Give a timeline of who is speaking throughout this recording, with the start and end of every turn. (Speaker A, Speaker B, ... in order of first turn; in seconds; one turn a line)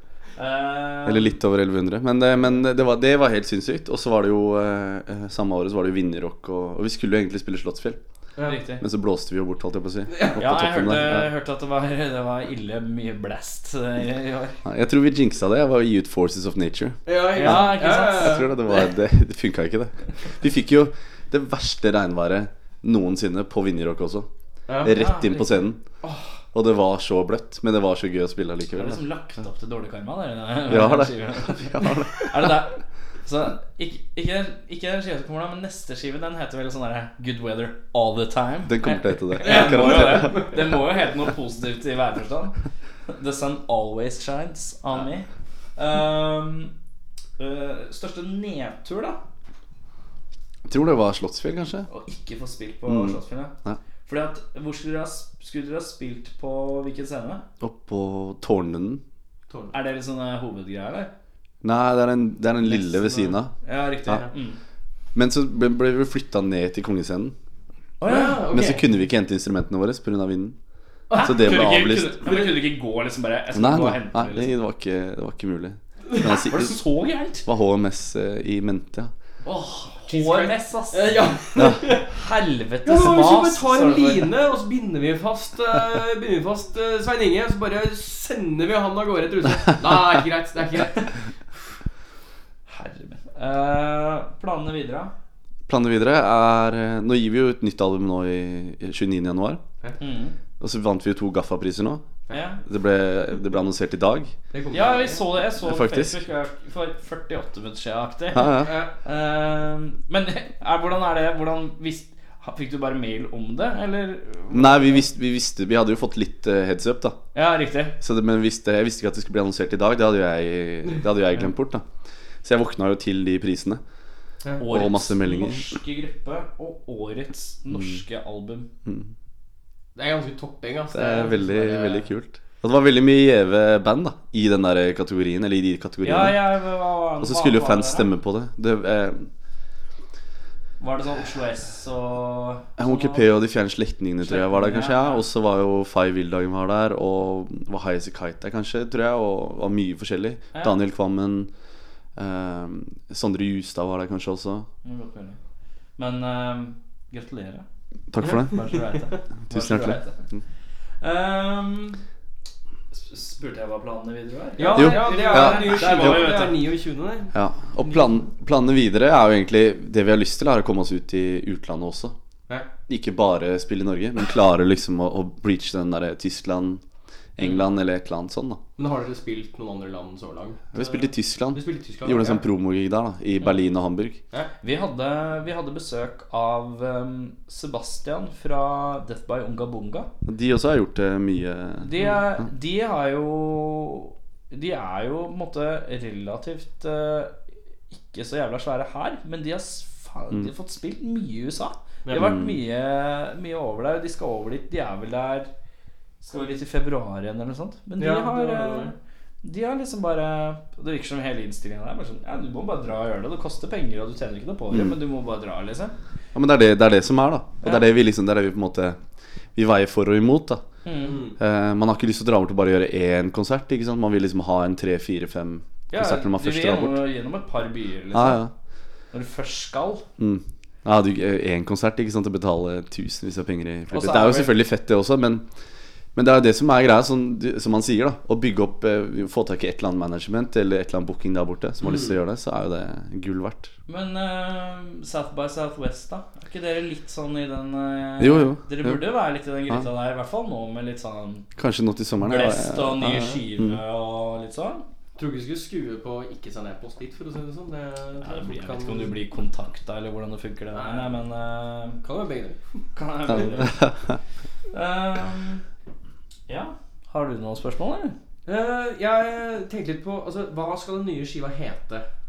Speaker A: 0.4-1.4
Speaker B: 1.0-8.0
Speaker C: 8.4-8.6
Speaker A: 8.4-8.8
Speaker B: 8.8-11.3
Speaker C: 10.1-10.4
Speaker A: 10.4-14.6
Speaker B: 14.6-24.3
Speaker C: 17.1-18.9
Speaker A: 17.4-18.4
Speaker C: 24.7-25.0
Speaker B: 24.8-25.8
Speaker A: 24.9-25.6
Speaker B: 26.5-29.0
Speaker A: 28.7-42.5
Speaker B: 30.7-32.5
Speaker B: 38.6-40.8
Speaker C: 39.4-40.6
Speaker A: 43.1-46.7
Speaker A: 47.4-49.2
Speaker B: 50.6-51.9
Speaker A: 51.9-53.5
Speaker B: 52.9-53.8
Speaker A: 54.1-57.4
Speaker B: 57.6-59.0
Speaker C: 59.5-59.7
Speaker A: 59.7-61.1
Speaker B: 61.6-63.5
Speaker C: 62.6-63.4
Speaker A: 63.6-64.6
Speaker B: 65.1-67.3
Speaker A: 68.0-68.5
Speaker C: 68.0-68.9
Speaker B: 68.5-70.5
Speaker C: 71.1-72.5
Speaker B: 71.1-72.2
Speaker A: 71.1-74.5
Speaker B: 73.5-76.8
Speaker A: 76.2-77.5
Speaker B: 77.5-79.1
Speaker C: 79.4-82.1
Speaker A: 80.0-84.3
Speaker B: 81.6-81.8
Speaker C: 82.8-91.1
Speaker A: 92.7-95.1
Speaker B: 95.7-99.6
Speaker A: 100.0-100.4
Speaker B: 100.6-102.0
Speaker A: 102.3-102.6
Speaker B: 102.6-104.3
Speaker C: 104.5-105.2
Speaker A: 104.7-115.1
Speaker B: 105.5-106.2
Speaker B: 108.3-108.8
Speaker C: 108.5-108.9
Speaker B: 114.5-117.2
Speaker A: 117.3-118.0
Speaker B: 118.0-121.8
Speaker B: 122.4-123.8
Speaker A: 124.6-128.7
Speaker B: 124.7-125.7
Speaker C: 129.9-132.1
Speaker B: 130.9-136.4
Speaker A: 136.0-138.1
Speaker B: 137.2-139.3
Speaker A: 140.8-143.3
Speaker B: 142.8-151.5
Speaker A: 144.2-145.2
Speaker B: 152.2-154.7
Speaker A: 154.8-155.4
Speaker A: 156.0-157.6
Speaker B: 158.1-158.8
Speaker A: 158.2-160.2
Speaker B: 159.5-160.4
Speaker A: 161.0-162.0
Speaker A: 162.9-166.6
Speaker C: 164.6-167.3
Speaker B: 164.7-166.3
Speaker B: 167.3-172.2
Speaker B: 172.9-176.8
Speaker B: 177.4-178.6
Speaker C: 178.8-180.7
Speaker B: 180.7-184.2
Speaker A: 180.8-181.1
Speaker C: 181.5-182.4
Speaker A: 184.6-190.1
Speaker B: 190.2-191.9
Speaker A: 191.8-197.4
Speaker A: 197.9-205.5
Speaker C: 202.0-202.3
Speaker B: 202.1-202.6
Speaker A: 206.2-215.9
Speaker C: 208.0-208.9
Speaker B: 214.7-215.0
Speaker B: 216.3-219.0
Speaker A: 217.6-217.9
Speaker B: 219.5-220.6
Speaker A: 220.8-221.2
Speaker C: 221.0-221.4
Speaker B: 221.4-227.0
Speaker A: 225.9-228.4
Speaker B: 228.1-228.5
Speaker A: 229.1-230.0
Speaker B: 230.2-235.4
Speaker A: 233.9-234.6
Speaker B: 236.1-243.7
Speaker C: 241.8-242.2
Speaker A: 243.9-251.5
Speaker B: 248.2-249.0
Speaker B: 251.6-253.8
Speaker A: 252.2-254.8
Speaker C: 255.2-259.1
Speaker A: 258.2-262.0
Speaker C: 260.7-261.2
Speaker C: 262.0-262.8
Speaker A: 262.9-263.8
Speaker B: 263.3-263.9
Speaker A: 264.7-265.6
Speaker A: 266.5-268.1
Speaker C: 268.4-272.0